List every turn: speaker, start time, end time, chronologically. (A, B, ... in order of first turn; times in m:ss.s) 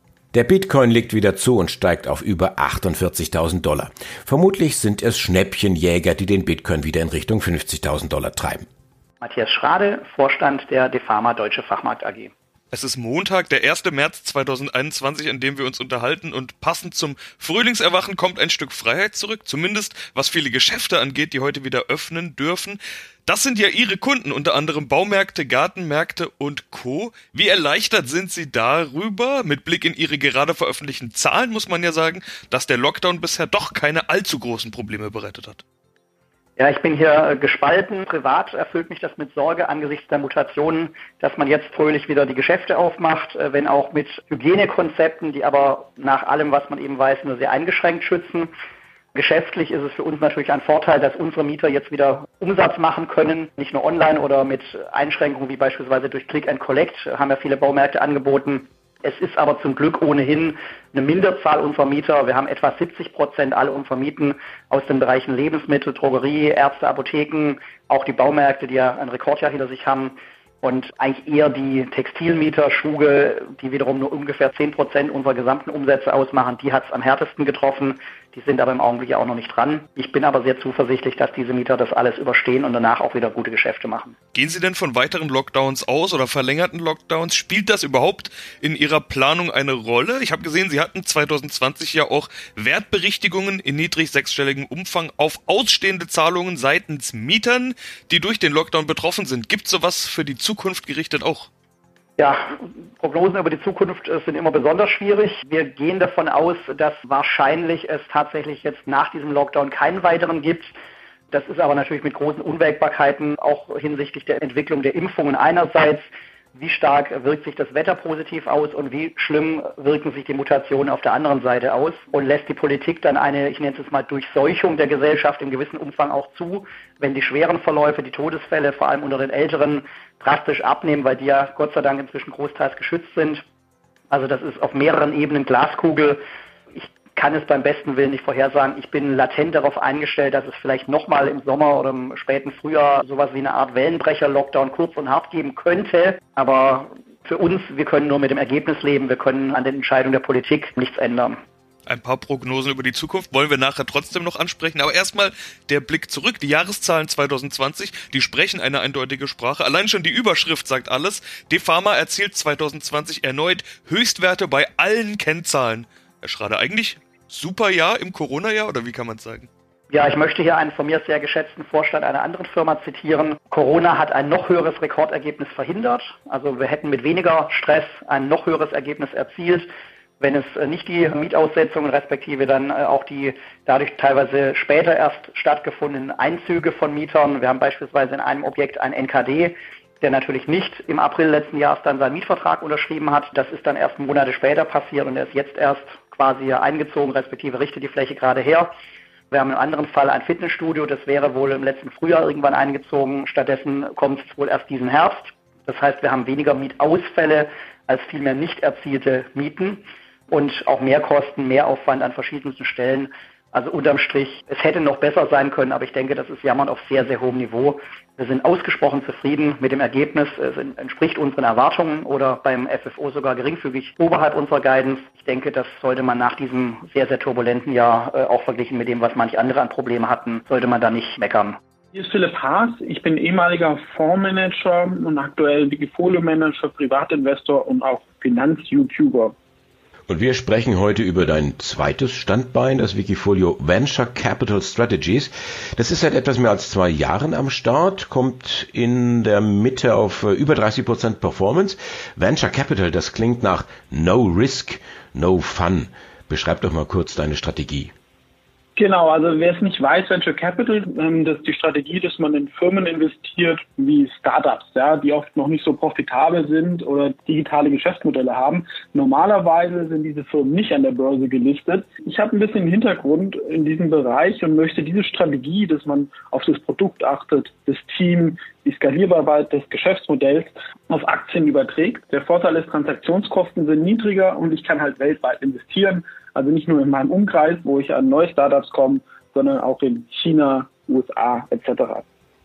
0:00.3-0:08.6 A
0:09.2-0:12.3 B
0:12.7-0:35.6 C
0:36.6-0:48.5 B
0:49.1-1:24.1 B
1:24.3-1:41.5 C
1:42.2-1:50.7 B
1:51.3-2:13.4 B
2:14.1-2:16.2 B
2:16.7-2:31.4 B
2:31.9-2:49.5 C
2:49.9-3:18.7 B
3:19.3-3:51.6 B
3:51.9-3:59.3 D
4:00.1-4:17.9 A
4:18.8-4:52.0 D